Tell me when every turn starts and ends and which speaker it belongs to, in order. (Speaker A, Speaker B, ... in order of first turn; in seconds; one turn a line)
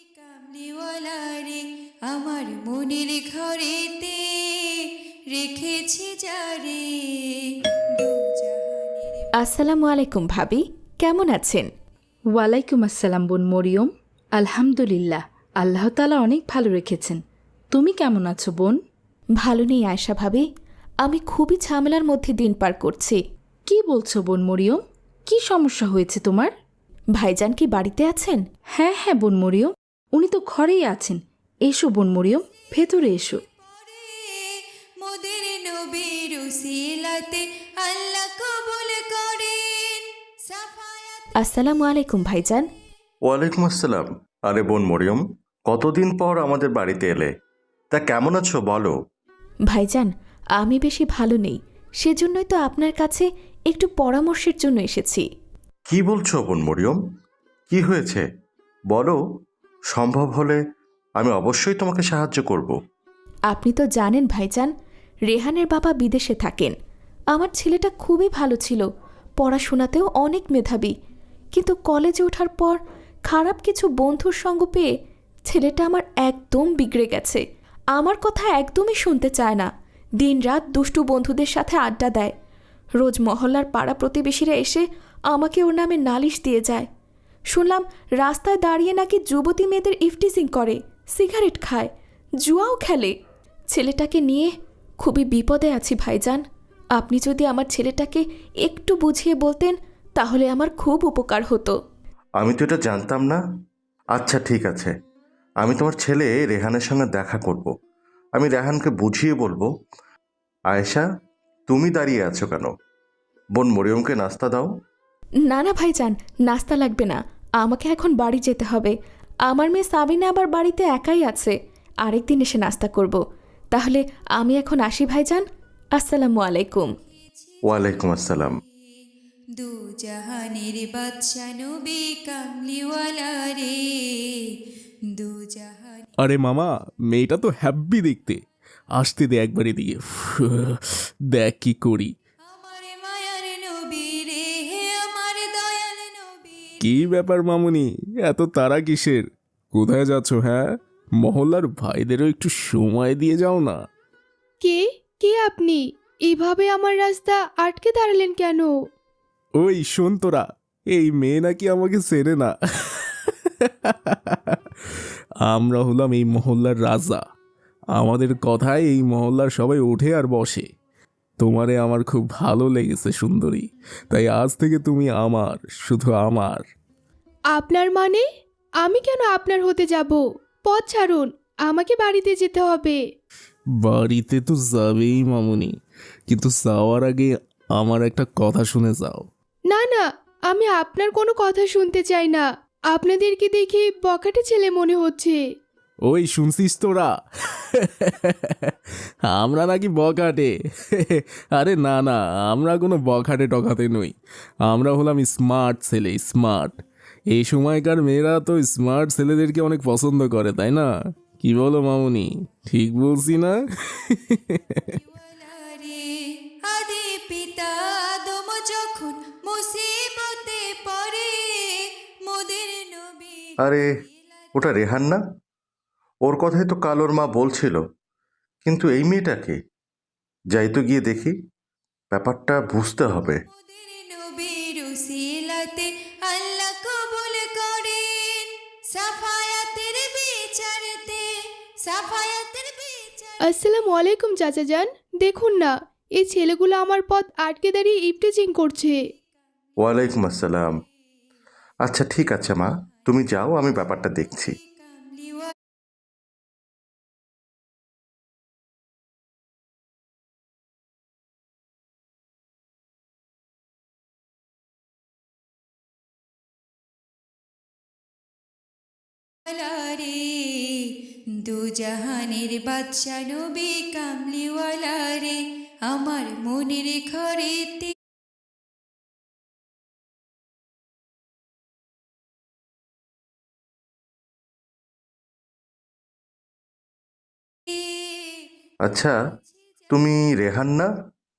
Speaker A: 0.1-9.3
Speaker B: 9.4-11.7
Speaker C: 12.4-17.2
Speaker C: 17.7-18.8
Speaker B: 19.4-20.4
Speaker B: 21.0-23.2
Speaker C: 23.7-26.5
Speaker B: 27.2-28.4
Speaker C: 28.8-33.4
Speaker A: 33.7-41.4
Speaker B: 41.4-42.7
Speaker D: 43.3-47.3
Speaker D: 47.9-49.0
Speaker B: 49.7-55.2
Speaker D: 55.9-57.0
Speaker D: 57.7-58.2
Speaker D: 58.9-59.2
Speaker D: 59.9-60.6
Speaker D: 61.2-62.8
Speaker B: 63.5-64.7
Speaker B: 65.3-66.8
Speaker B: 67.3-68.8
Speaker B: 69.4-70.9
Speaker B: 71.5-72.8
Speaker B: 73.3-74.9
Speaker B: 75.5-77.4
Speaker B: 78.0-82.3
Speaker B: 83.0-86.9
Speaker B: 87.5-91.9
Speaker B: 92.5-93.1
Speaker B: 93.7-96.4
Speaker B: 97.0-101.7
Speaker D: 102.4-103.4
Speaker D: 104.2-104.9
Speaker D: 105.6-107.7
Speaker D: 108.4-109.7
Speaker D: 110.7-111.1
Speaker D: 111.7-112.7
Speaker D: 113.6-114.7
Speaker B: 115.5-118.9
Speaker B: 119.5-121.5
Speaker B: 122.1-123.2
Speaker B: 123.7-125.5
Speaker B: 126.0-126.9
Speaker A: 127.2-128.6
Speaker D: 127.7-128.6
Speaker A: 129.6-134.5
Speaker A: 135.1-136.1
Speaker E: 136.2-138.4
Speaker E: 139.0-142.1
Speaker A: 142.5-146.9
Speaker E: 146.8-150.7
Speaker E: 151.2-153.8
Speaker F: 154.6-158.7
Speaker E: 159.6-164.6
Speaker E: 165.5-167.2
Speaker E: 168.0-170.7
Speaker E: 171.4-176.7
Speaker F: 177.6-178.2
Speaker F: 178.8-183.0
Speaker E: 183.8-185.8
Speaker E: 186.3-189.3
Speaker F: 189.7-195.4
Speaker E: 196.1-198.8
Speaker E: 199.3-204.2
Speaker E: 204.7-214.8
Speaker A: 214.9-223.6
Speaker D: 223.6-223.9
Speaker D: 224.6-225.2
Speaker D: 226.3-227.8
Speaker D: 228.7-229.6
Speaker D: 230.5-231.3
Speaker D: 232.1-233.4
Speaker A: 233.6-243.4
Speaker F: 243.4-249.0
Speaker D: 249.8-250.7
Speaker D: 251.9-254.5
Speaker A: 254.8-255.5
Speaker A: 269.5-277.9
Speaker D: 288.9-289.2
Speaker D: 289.9-290.9